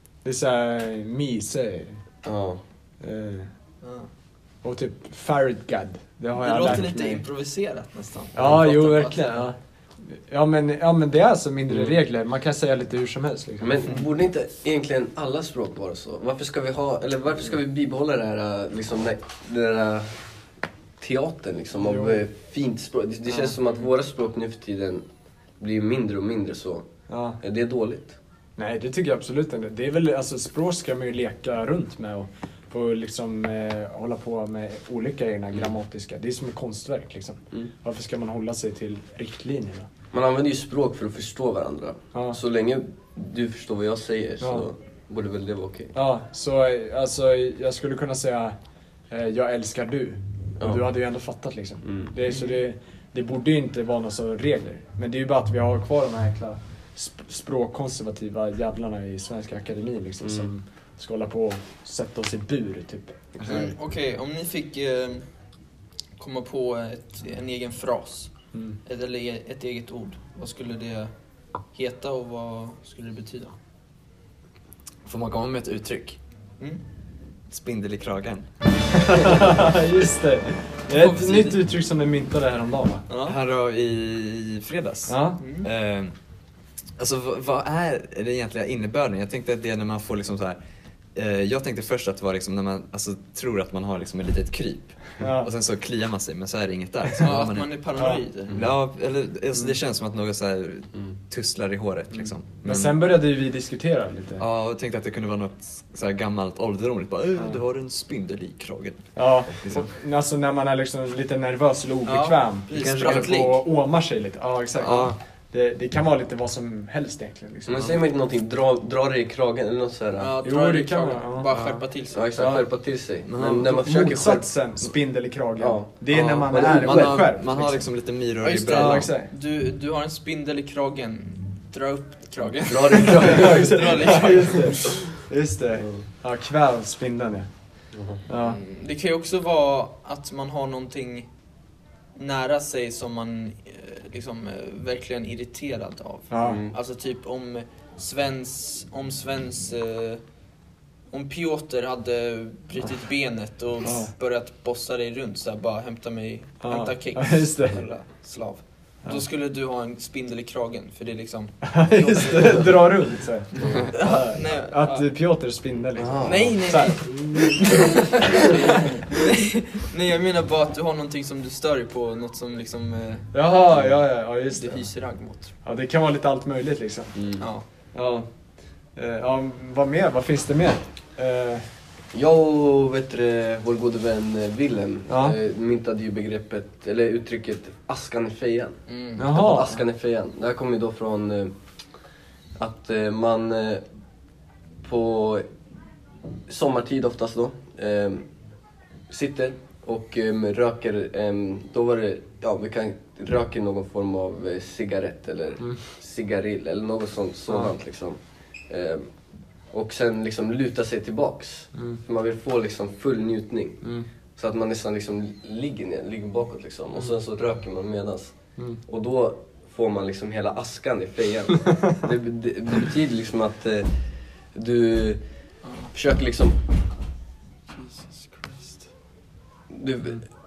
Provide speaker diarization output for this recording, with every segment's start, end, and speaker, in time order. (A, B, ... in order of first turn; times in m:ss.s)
0:00.2-0:02.0 A
0:02.2-0:02.6 B
0:03.0-0:03.5 A
0:03.8-0:04.1 C
0:04.6-0:07.2 A
0:06.3-0:09.5 C
0:08.3-0:13.9 A
0:13.6-0:20.1 B
0:21.0-0:25.0 B
0:21.8-0:22.2 A
0:25.6-0:26.9 B
0:27.1-0:27.4 A
0:27.4-0:28.2 B
0:28.6-0:39.9 A
0:40.1-0:45.9 B
0:42.1-0:42.4 A
0:44.4-0:44.7 A
0:45.9-0:48.6 A
0:49.1-1:03.2 A
0:50.6-0:50.9 B
0:51.8-0:52.1 B
0:52.3-0:52.6 C
1:00.2-1:00.5 B
1:03.4-1:05.3 C
1:06.2-1:08.3 C
1:08.5-1:08.8 A
1:08.8-1:11.1 C
1:11.7-1:13.5 C
1:15.0-1:16.2 D
1:17.5-1:19.5 D
1:19.0-1:23.0 A
1:21.1-1:21.5 D
1:23.1-1:23.4 C
1:23.2-1:26.1 D
1:25.1-1:25.4 A
1:25.4-1:25.7 C
1:27.0-1:30.6 D
1:31.1-1:37.7 D
1:35.2-1:35.5 A
1:37.2-1:38.6 C
1:38.0-1:38.2 A
1:38.5-1:43.0 D
1:42.2-1:44.4 A
1:44.4-1:49.9 D
1:49.2-1:58.0 A
1:52.0-1:53.6 C
1:52.7-1:53.5 D
1:54.8-1:55.2 D
1:57.7-2:00.3 B
2:00.2-2:02.4 C
2:00.4-2:01.5 A
2:01.5-2:01.8 D
2:02.1-2:04.5 B
2:02.4-2:02.7 A
2:03.2-2:03.8 D
2:03.6-2:07.8 A
2:05.6-2:07.3 B
2:06.1-2:09.1 D
2:08.4-2:15.0 C
2:08.7-2:09.3 A
2:12.6-2:14.3 B
2:13.2-2:17.5 A
2:15.8-2:16.0 B
2:17.9-2:18.2 B
2:18.3-2:18.6 A
2:18.4-2:21.3 C
2:22.1-2:30.2 C
2:26.3-2:26.6 A
2:26.4-2:26.8 B
2:31.1-2:42.8 C
2:33.8-2:34.1 A
2:36.6-2:37.8 A
2:41.6-2:47.8 A
2:43.6-2:43.9 B
2:43.9-2:45.1 C
2:46.0-2:46.6 B
2:46.2-2:53.3 C
2:53.3-2:54.9 A
2:54.5-2:55.5 C
2:55.6-2:57.2 A
2:57.2-2:57.4 B
2:57.4-2:57.6 C
2:57.9-2:58.3 A
2:59.0-3:01.6 A
3:02.1-3:11.5 B
3:05.1-3:05.4 A
3:08.9-3:09.3 C
3:09.2-3:09.8 A
3:12.6-3:13.8 B
3:14.8-3:15.5 B
3:16.5-3:18.2 B
3:19.1-3:29.1 B
3:29.7-3:38.3 B
3:31.7-3:32.0 A
3:33.8-3:34.1 A
3:38.9-3:43.9 B
3:44.5-3:45.2 B
3:45.6-3:45.9 C
3:45.9-3:46.6 B
3:47.7-3:48.8 C
3:49.7-3:50.2 B